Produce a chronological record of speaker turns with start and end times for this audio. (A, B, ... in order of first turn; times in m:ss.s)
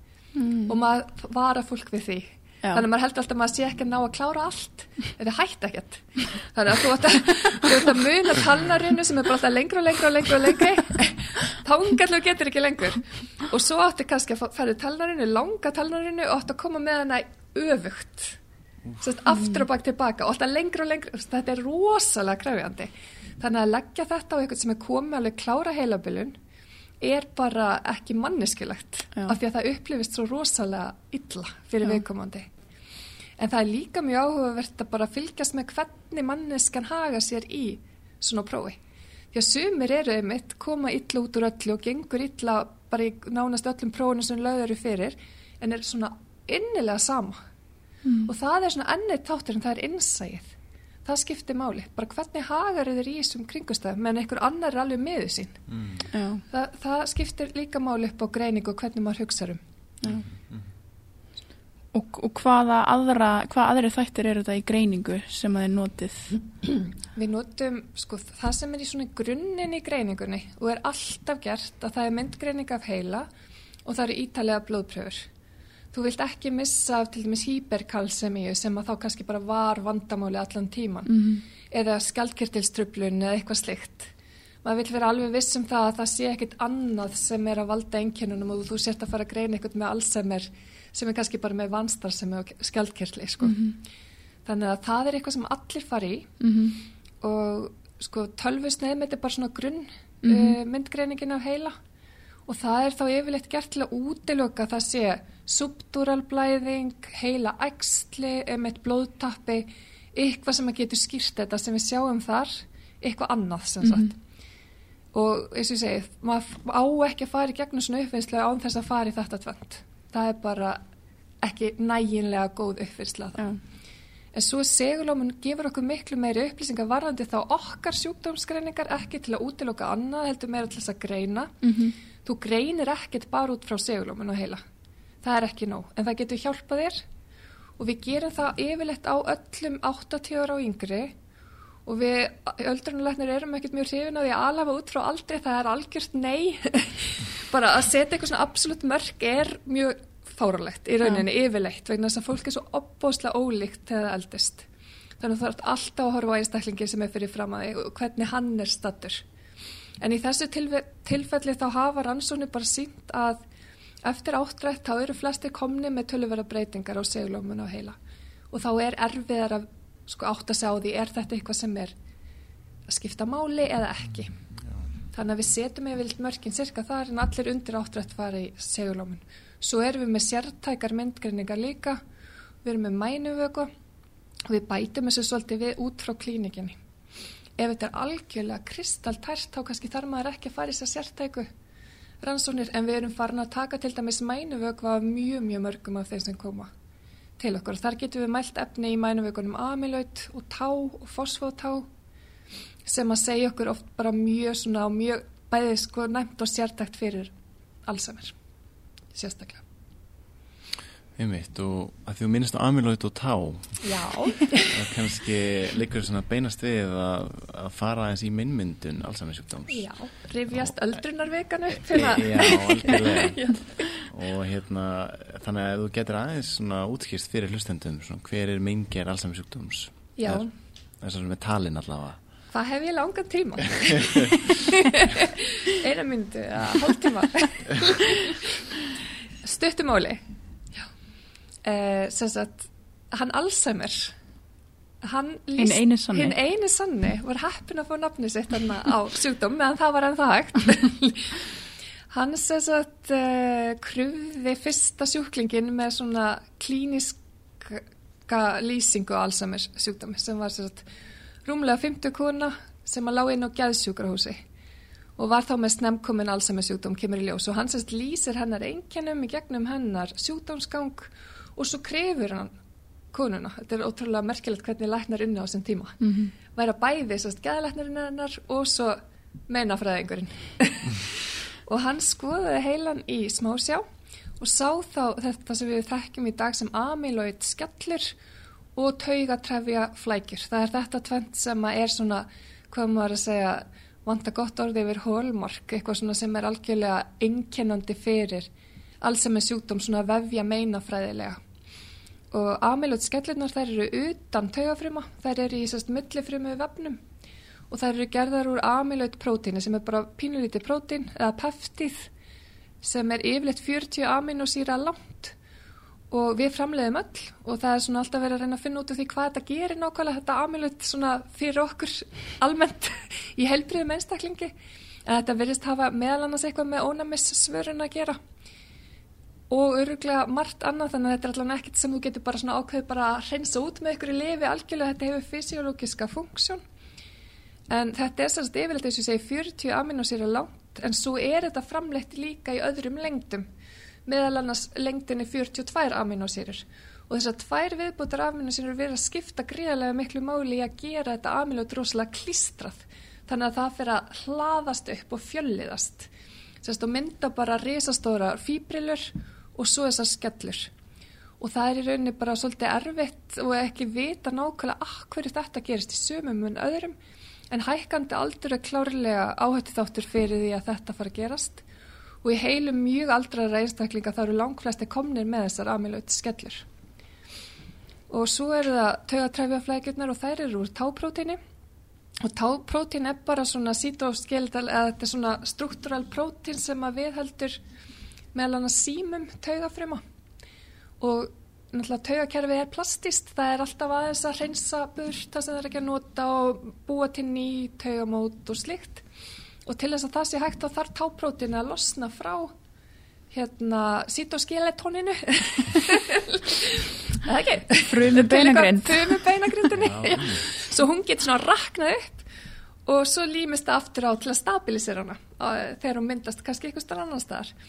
0:00.4-0:00.7 A
0:00.7-0:18.4 B
0:19.0-0:26.4 B
0:27.0-0:32.5 B
0:33.4-0:38.8 B
0:39.3-0:47.4 B
0:48.0-0:48.3 A
0:48.2-0:50.5 B
0:51.0-0:55.6 B
0:55.7-0:56.1 C
0:56.1-0:56.4 A
0:56.5-0:59.6 B
1:00.0-1:00.6 C
1:01.9-1:06.4 A
1:07.1-1:13.3 B
1:13.8-1:15.3 B
1:15.9-1:24.1 B
1:21.1-1:21.4 A
1:24.6-1:33.7 B
1:33.4-1:33.7 A
1:34.4-1:36.3 B
1:36.4-1:36.8 A
1:37.2-1:41.8 B
1:40.2-1:40.6 A
1:42.5-1:54.1 B
1:53.8-1:54.1 A
1:55.1-2:00.8 B
2:01.4-2:03.5 B
2:04.3-2:11.6 B
2:11.6-2:11.9 A
2:12.2-2:14.6 B
2:15.2-2:17.0 B
2:17.8-2:21.1 B
2:21.8-2:34.7 B
2:35.2-2:39.2 B
2:40.0-2:43.4 B
2:44.0-2:48.0 B
2:48.5-2:51.9 B
2:52.9-2:54.3 B
2:55.1-3:02.0 B
3:02.6-3:03.7 B
3:04.4-3:06.8 B
3:07.6-3:11.5 B
3:12.2-3:16.7 B
3:17.4-3:21.9 B
3:22.8-3:27.3 B
3:27.8-3:28.3 B
3:29.1-3:29.6 B
3:31.2-3:33.8 C
3:33.8-3:34.8 B
3:34.6-3:39.9 C
3:39.7-3:43.8 B
3:41.8-3:50.4 C
3:50.2-3:50.5 B
3:51.0-3:52.2 C
3:52.5-3:58.5 B
3:59.4-4:00.2 B
4:01.6-4:04.1 B
4:05.0-4:11.5 B
4:05.6-4:06.4 A
4:12.1-4:20.9 B
4:21.4-4:24.4 B
4:25.2-4:32.5 B
4:33.1-4:36.0 B
4:36.0-4:36.3 A
4:36.5-4:41.1 B
4:41.6-4:43.8 B
4:44.4-4:48.1 B
4:48.8-4:58.5 B
4:59.0-5:01.4 B
5:02.3-5:07.0 B
5:07.7-5:12.1 B
5:12.8-5:15.3 B
5:16.1-5:24.5 B
5:25.0-5:28.2 B
5:29.5-5:36.6 B
5:37.7-5:43.5 B
5:44.0-5:56.1 B
5:56.6-6:00.7 B
6:01.4-6:06.9 B
6:07.5-6:11.6 B
6:12.2-6:16.6 B
6:18.1-6:21.4 B
6:22.2-6:27.6 B
6:28.3-6:30.0 B
6:31.0-6:39.0 B
6:39.6-6:42.5 B
6:43.3-6:52.3 B
6:47.9-6:49.2 A
6:49.7-6:50.4 C
6:52.8-6:57.5 B